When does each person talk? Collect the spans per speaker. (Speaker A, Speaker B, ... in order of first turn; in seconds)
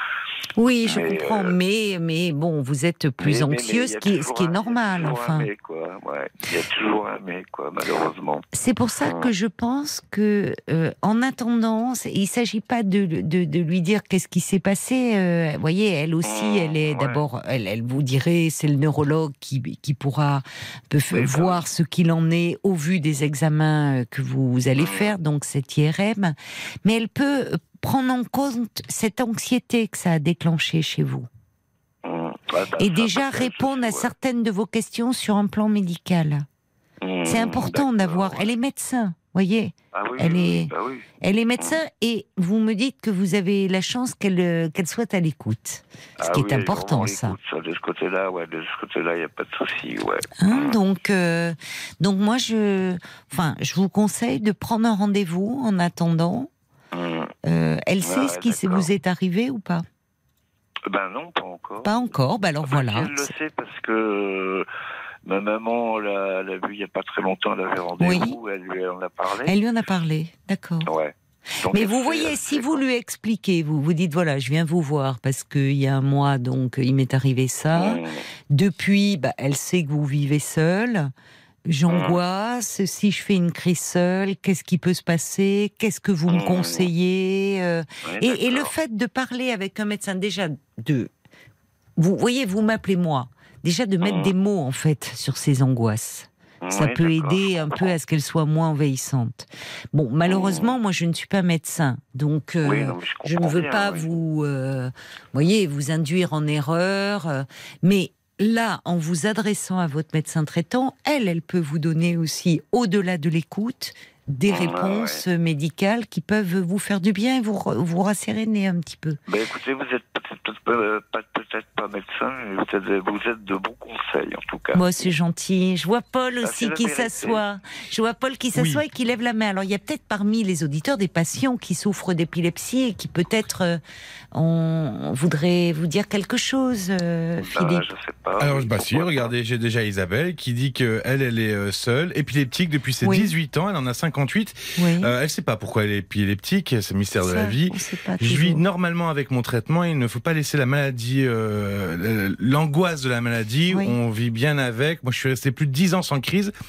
Speaker A: 0.6-5.5, 8.5-31.3, 32.8-36.5, 37.3-47.4, 50.4-56.5, 57.5-59.9, 61.9-63.3, 68.0-68.4, 69.5-70.9, 71.7-81.1, 81.7-91.1, 92.0-119.2, 124.7-133.8, 134.3-137.9, 143.0-143.3, 144.8-145.1, 147.2-148.6, 153.7-154.0
Speaker B: 0.9-1.6, 3.2-8.4, 16.2-17.2, 21.1-21.6, 24.8-25.1, 32.0-34.1, 37.0-38.5, 39.9-41.1, 46.2-50.8, 56.9-57.3, 58.0-58.9, 60.9-62.0, 62.7-64.7, 65.3-69.6, 70.8-72.8, 77.7-78.2, 81.9-82.2, 86.3-86.9, 88.0-88.7, 94.0-94.3, 96.6-97.9, 100.3-100.7, 102.6-104.0, 114.5-115.2, 119.3-124.8, 126.4-127.4, 137.4-139.3
Speaker C: 128.6-128.8, 138.4-156.5